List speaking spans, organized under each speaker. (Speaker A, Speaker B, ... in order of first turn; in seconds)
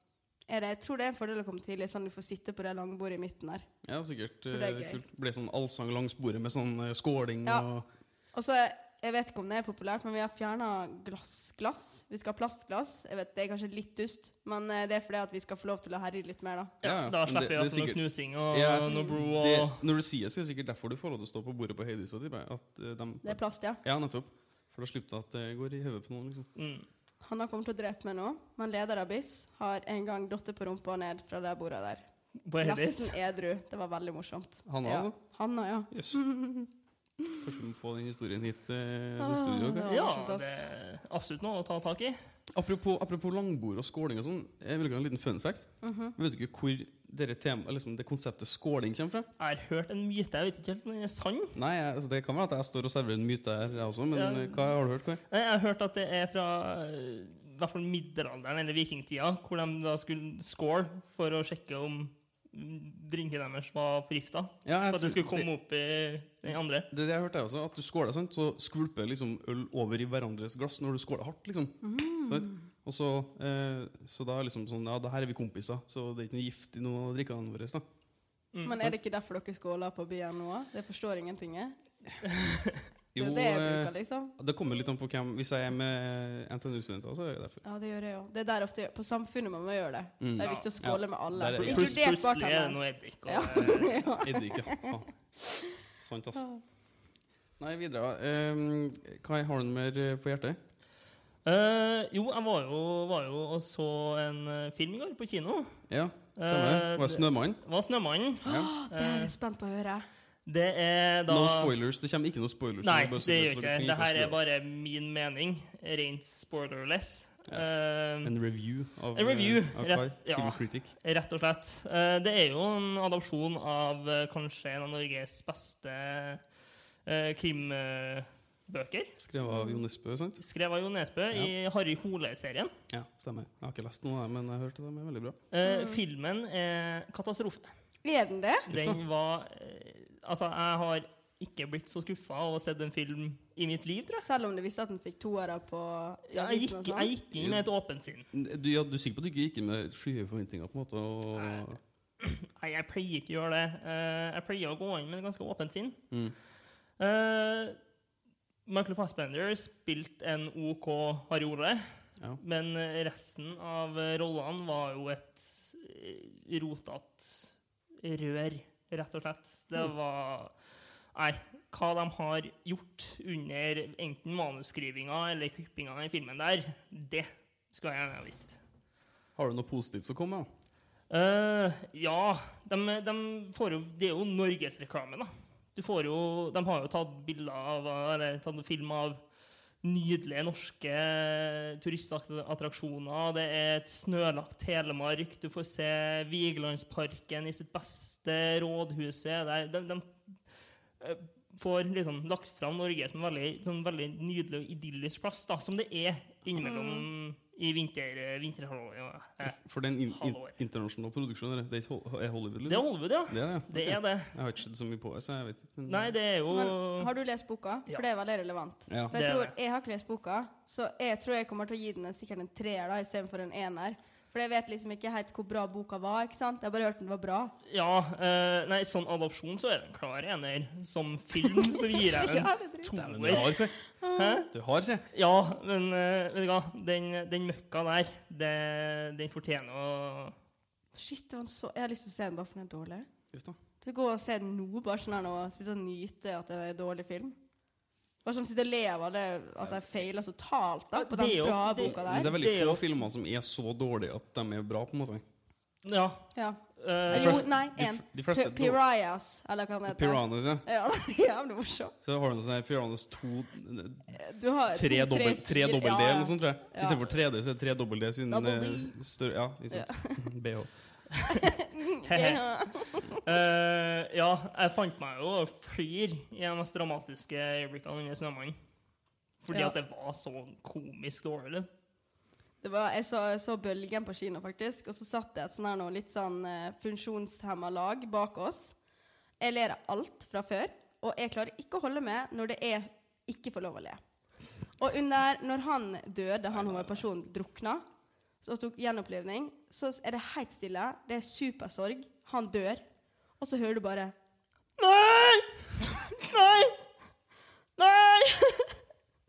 Speaker A: 0.5-3.7, 4.5-5.0, 8.3-16.7, 23.2-23.8, 27.2-32.0, 32.6-36.7, 39.2-40.6, 45.8-46.1, 71.8-72.7, 78.6-81.8, 83.2-84.3, 87.6-95.0, 96.3-96.6, 108.4-110.1, 129.4-129.8, 135.6-136.0, 138.0-138.7, 144.2-147.1, 206.6-207.1, 216.5-227.5, 231.5-234.4, 240.9-243.1, 243.8-247.4, 248.2-252.3, 256.3-261.9, 264.1-267.0, 268.3-269.0, 269.7-270.3, 271.3-273.2, 279.5-279.8, 282.6-288.8, 289.4-294.0, 294.8-297.8, 298.4-302.8, 303.4-304.1, 305.9-306.7, 307.8-308.8
Speaker B: 3.8-7.9, 16.8-26.5, 34.6-35.1, 35.9-36.2, 37.4-39.9, 42.5-49.3, 51.5-55.2, 64.6-65.5, 66.9-77.8, 83.1-87.6, 90.2-92.0, 94.2-95.1, 95.8-96.4, 97.6-100.6, 105.9-107.6, 108.4-108.7, 111.3-114.4, 118.2-120.9, 129.2-130.4, 132.9-135.4, 138.7-139.0, 147.3-147.7, 148.3-151.8, 179.4-180.5, 209.4-216.1, 218.9-219.1, 232.9-233.8, 234.5-235.1, 243.3-243.6, 251.8-255.2, 257.1-258.8, 259.9-260.6, 262.0-264.1, 264.7-270.7
Speaker C: 16.8-19.8, 26.6-26.9, 32.5-33.2, 39.9-42.2, 49.4-51.5, 54.1-54.8, 55.3-66.9, 82.3-82.8, 90.4-90.7, 91.6-94.0, 101.4-105.7, 106.4-109.3, 110.5-111.7, 112.8-118.3, 119.1-126.4, 127.1-129.1, 130.4-132.7, 135.5-137.7, 138.7-144.3, 146.3-148.3, 151.4-151.6, 152.2-156.0, 157.0-157.8, 158.7-161.8, 162.4-170.5, 171.1-178.6, 181.1-189.2, 189.8-200.2, 201.0-209.6, 210.1-210.5, 212.7-214.3, 215.9-217.1, 219.1-219.6, 227.7-233.6, 234.1-234.5, 235.1-240.3, 250.9-252.8, 255.8-257.5, 272.1-272.4, 273.1-278.6, 279.4-281.7, 304.8-305.4